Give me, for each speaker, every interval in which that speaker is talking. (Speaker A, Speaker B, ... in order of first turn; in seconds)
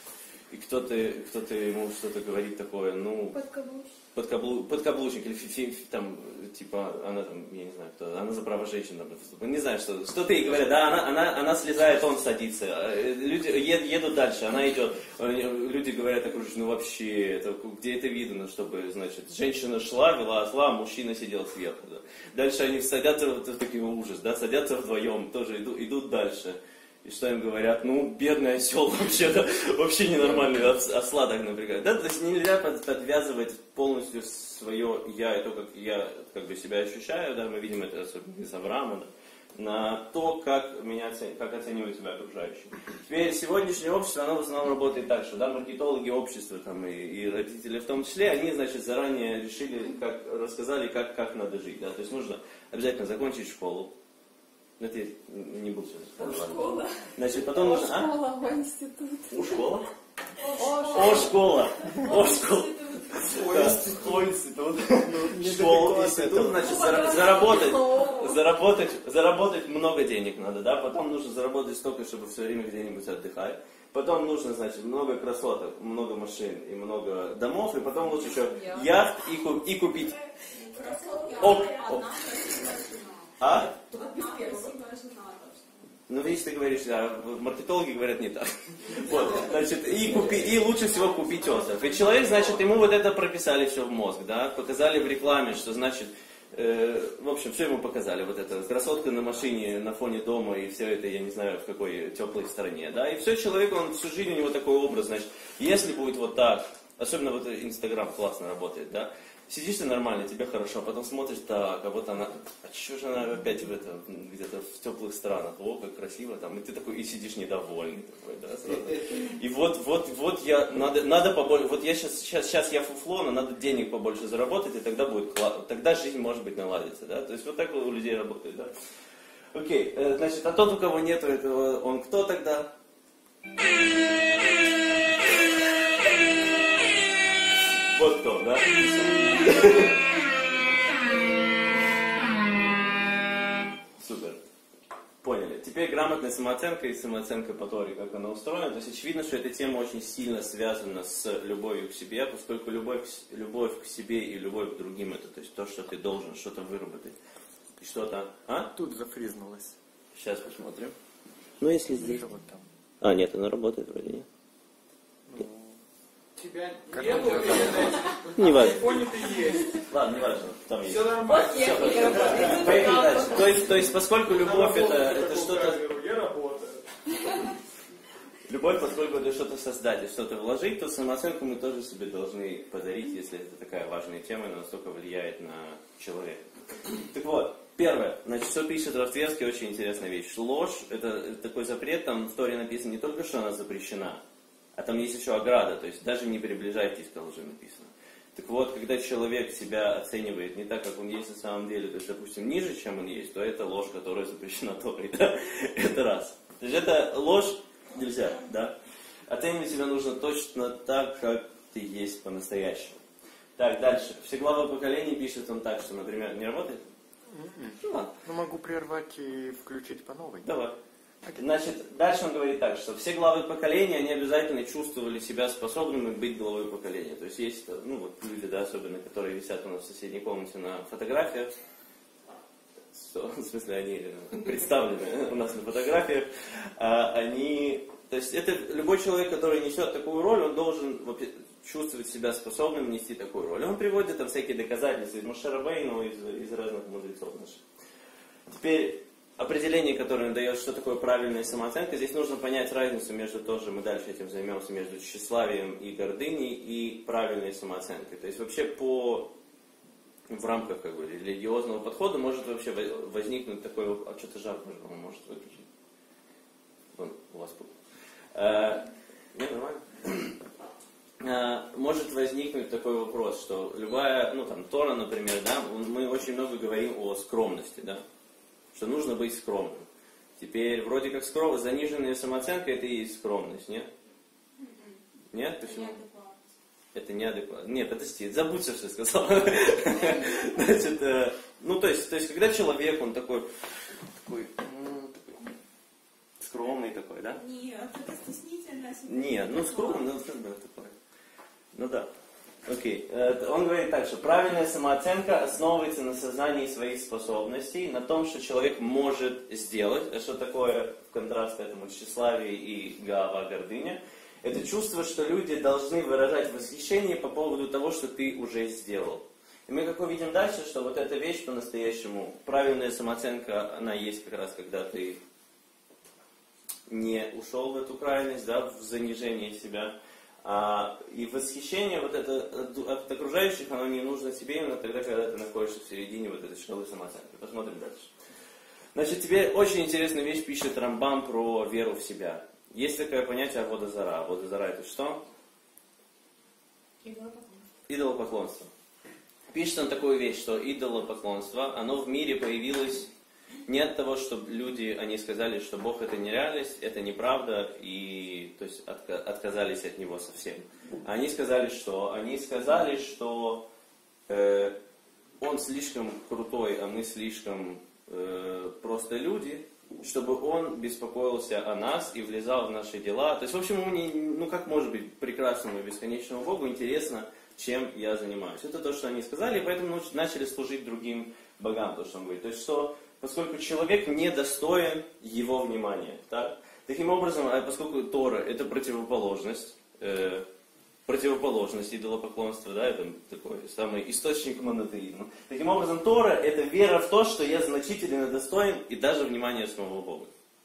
Speaker A: 0.5-3.4, 4.1-53.9, 54.8-58.2, 59.3-59.9, 60.9-80.2, 81.4-82.1, 83.4-83.7, 86.1-128.7, 129.5-132.7, 137.9-140.0, 144.0-144.4, 145.2-157.2, 157.8-158.7, 160.1-160.9, 161.6-162.2, 163.0-164.3, 167.3-167.8, 168.3-168.9, 169.9-175.8, 178.5-186.5, 187.1-194.2, 194.7-208.7, 209.3-213.0, 213.6-216.8, 217.8-218.1, 220.4-220.7, 221.3-231.5, 232.9-247.6, 248.5-259.3, 260.3-265.6, 266.9-267.7, 268.3-270.4, 271.2-278.0, 278.7-279.9, 280.4-283.9, 285.3-286.0, 286.9-293.4, 294.2-295.4, 296.4-297.4, 299.0-300.9, 301.7-302.1, 302.6-325.2, 326.9-338.1, 338.9-345.2, 347.9-348.7, 349.5-353.1, 353.6-363.6, 364.3-364.7, 365.4-390.4, 391.1-400.3
Speaker B: 3.3-3.9, 56.2-56.8, 57.3-59.6, 60.4-62.5, 66.7-68.3, 77.9-78.9, 80.5-84.8, 171.2-173.9, 347.0-347.6
Speaker C: 56.2-57.0, 60.4-63.1, 66.6-67.6, 80.5-85.8, 284.6-285.0, 285.6-286.4, 289.9-290.6, 297.3-300.1
Speaker D: 63.3-64.3, 92.2-92.6, 166.3-169.8, 170.8-173.0, 174.3-176.8
Speaker E: 65.0-66.8, 158.7-159.7, 161.9-162.6, 165.3-165.8, 166.9-168.1, 217.3-220.5